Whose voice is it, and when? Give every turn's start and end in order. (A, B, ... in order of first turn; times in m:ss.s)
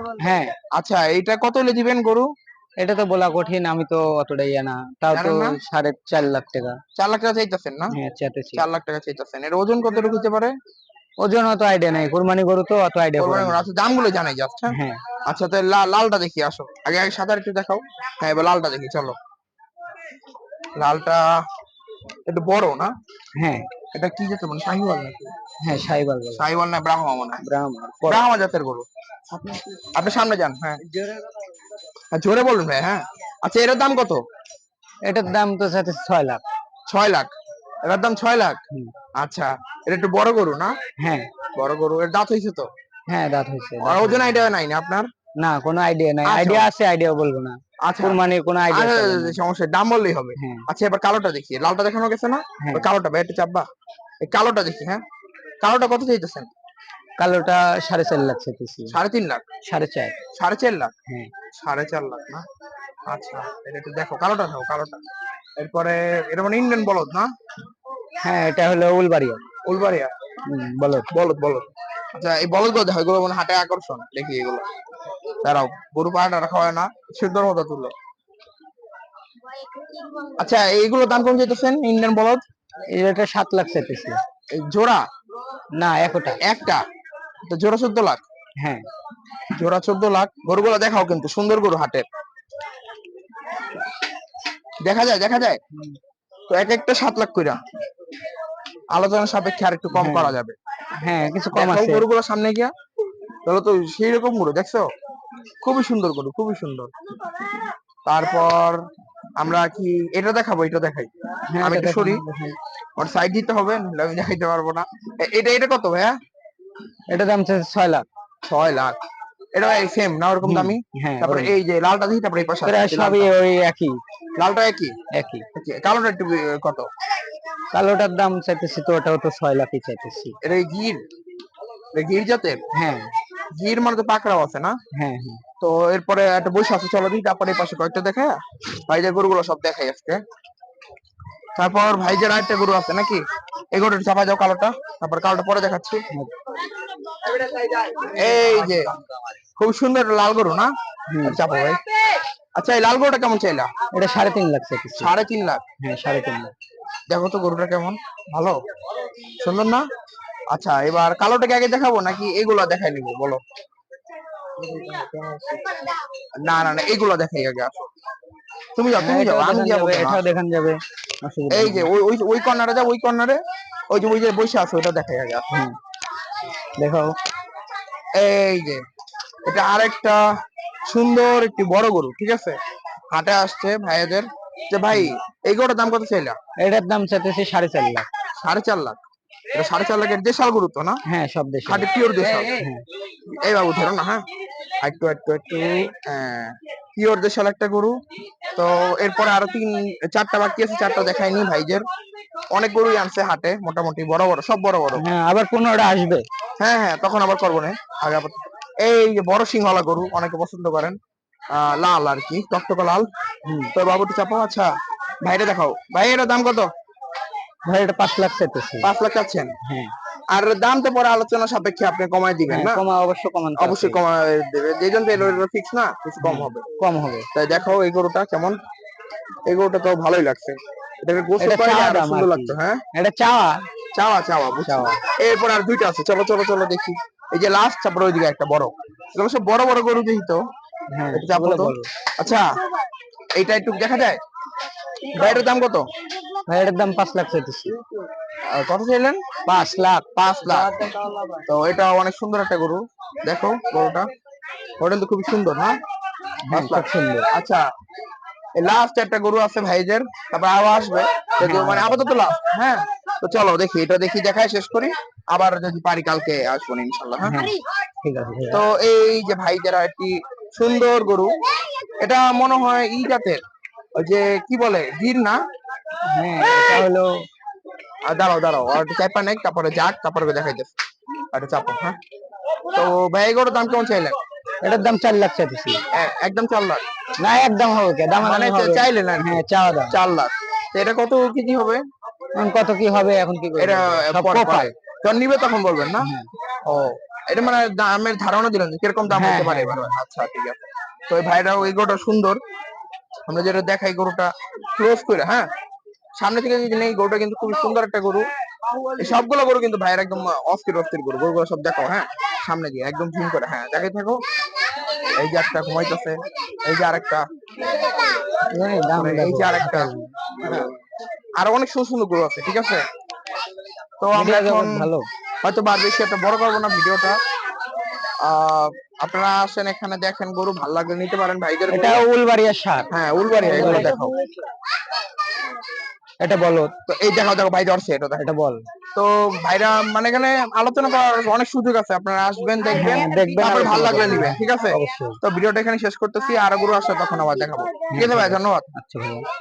0:00.1-0:00.6 A
0:00.8-0:02.3 B
0:02.8-0:06.8 A
0:05.1-0:05.6 B
0:07.0-0:08.0 B
0:07.9-0:08.7 A
0:08.6-0:10.6 B
0:11.2-0:13.6 A
0:13.2-0:19.2 B
0:14.7-0:15.0 A
0:20.8-0:21.4 B
0:22.3-0:22.9 B
0:23.4-0:23.7 A
0:23.9-0:25.3 B
0:25.6-0:26.4 A
0:26.4-0:27.4 B
0:27.4-0:28.2 A
0:28.1-0:30.8 B
0:32.1-0:34.2 B
0:35.1-0:36.4 A
0:36.9-0:37.3 B
0:37.8-0:38.6 B
0:39.2-0:40.8 B
0:41.0-0:41.3 A
0:41.6-0:42.7 B
0:43.1-0:44.5 A
0:43.8-0:45.1 B
0:45.4-0:49.4 A
0:46.2-0:46.7 B
0:47.8-0:53.7 B
0:50.4-0:50.6 A
0:52.6-0:52.9 A
0:54.2-0:55.0 B
0:55.6-0:56.5 B
0:57.2-0:59.0 A
0:58.9-0:59.4 B
0:59.6-1:00.2 A
1:00.4-1:00.9 B
1:01.6-1:02.4 B
1:03.1-1:05.0 B
1:05.6-1:07.3 B
1:08.2-1:09.4 A
1:09.7-1:10.1 B
1:10.5-1:11.1 A
1:11.1-1:14.6 B
1:15.4-1:17.9 B
1:20.4-1:22.4 B
1:22.9-1:24.2 A
1:24.5-1:25.0 B
1:25.8-1:26.4 A
1:26.4-1:26.8 B
1:27.5-1:28.2 B
1:28.6-1:28.9 A
1:29.5-1:32.1 B
1:34.8-1:35.6 B
1:36.5-1:37.6 B
1:38.9-1:40.6 B
1:39.9-1:40.4 A
1:41.0-1:42.0 A
1:41.5-1:42.7 B
1:43.5-1:44.9 B
1:45.6-1:46.9 B
1:48.0-1:48.8 B
1:49.4-1:51.1 B
1:51.5-1:52.6 A
1:51.6-1:52.2 B
1:53.0-1:56.1 B
1:57.1-1:58.0 A
1:58.5-1:59.0 B
1:59.6-2:03.3 B
2:00.4-2:01.6 A
2:02.6-2:04.0 A
2:04.4-2:05.0 B
2:05.1-2:05.5 A
2:05.6-2:06.9 B
2:07.7-2:10.4 A
2:10.4-2:11.0 B
2:11.9-2:12.6 B
2:12.7-2:13.1 A
2:13.6-2:14.8 B
2:14.9-2:15.4 A
2:15.6-2:20.2 B
2:21.6-2:26.0 B
2:27.8-2:28.9 B
2:29.6-2:30.7 B
2:31.1-2:31.4 A
2:31.2-2:31.8 B
2:32.6-2:33.7 B
2:33.9-2:35.1 A
2:35.0-2:35.6 B
2:35.8-2:36.5 A
2:37.1-2:38.6 B
2:39.4-2:39.9 B
2:40.5-2:43.4 B
2:44.6-2:45.6 B
2:46.4-2:47.9 B
2:48.8-2:50.2 B
2:49.0-2:51.9 A
2:51.5-2:55.5 B
2:56.8-2:57.2 A
2:58.2-2:58.8 B
2:59.5-3:00.2 B
3:00.9-3:02.6 B
3:03.1-3:06.4 B
3:06.6-3:08.1 A
3:08.4-3:09.0 B
3:09.5-3:11.0 B
3:11.1-3:12.8 A
3:11.7-3:12.7 B
3:13.4-3:14.2 B
3:14.8-3:18.0 B
3:18.6-3:21.8 B
3:22.5-3:25.0 B
3:25.0-3:26.3 A
3:26.6-3:31.0 B
3:31.5-3:33.1 B
3:33.5-3:33.7 A
3:33.7-3:34.7 B
3:35.2-3:36.7 B
3:37.7-3:38.9 A
3:38.8-3:39.5 B
3:39.6-3:39.9 A
3:40.3-3:42.8 B
3:42.5-3:44.0 A
3:43.6-3:46.7 B
3:45.2-3:45.4 A
3:46.2-3:47.3 A
3:47.3-3:48.6 B
3:49.5-3:52.8 B
3:51.4-3:53.6 A
3:54.0-4:00.4 B
3:54.6-3:55.0 A
4:00.9-4:01.9 A
4:01.1-4:02.5 B
4:03.4-4:04.2 B
4:05.1-4:05.9 B
4:06.5-4:07.8 A
4:08.5-4:09.3 B
4:09.5-4:11.4 A
4:10.2-4:10.7 B
4:11.5-4:14.1 B
4:14.8-4:15.8 B
4:16.5-4:17.3 A
4:16.5-4:17.6 B
4:18.6-4:27.5 B
4:21.4-4:22.1 A
4:27.2-4:28.6 A
4:28.5-4:31.4 B
4:32.0-4:33.4 B
4:34.0-4:35.4 B
4:36.1-4:37.3 A
4:38.1-4:40.7 B
4:41.3-4:42.0 B
4:42.7-4:44.2 B
4:44.6-4:45.8 A
4:45.9-4:46.8 B
4:47.2-4:50.0 A
4:48.2-4:51.8 B
4:52.4-4:54.7 A
4:53.6-4:56.1 B
4:56.0-4:56.3 A
4:56.7-5:02.4 B
4:59.1-4:59.9 A
5:03.3-5:05.5 B
5:06.2-5:08.3 B
5:09.0-5:14.2 B
5:15.2-5:17.2 B
5:18.5-5:20.1 A
5:19.0-5:20.8 B
5:21.4-5:22.8 B
5:24.0-5:24.9 B
5:24.1-5:25.1 A
5:25.4-5:27.2 B
5:28.2-5:32.0 B
5:31.7-5:34.2 A
5:32.9-5:34.1 B
5:36.2-5:36.7 A
5:36.9-5:38.2 B
5:38.2-5:38.7 A
5:39.0-5:48.7 B
5:42.7-5:45.2 A
5:47.9-5:49.2 A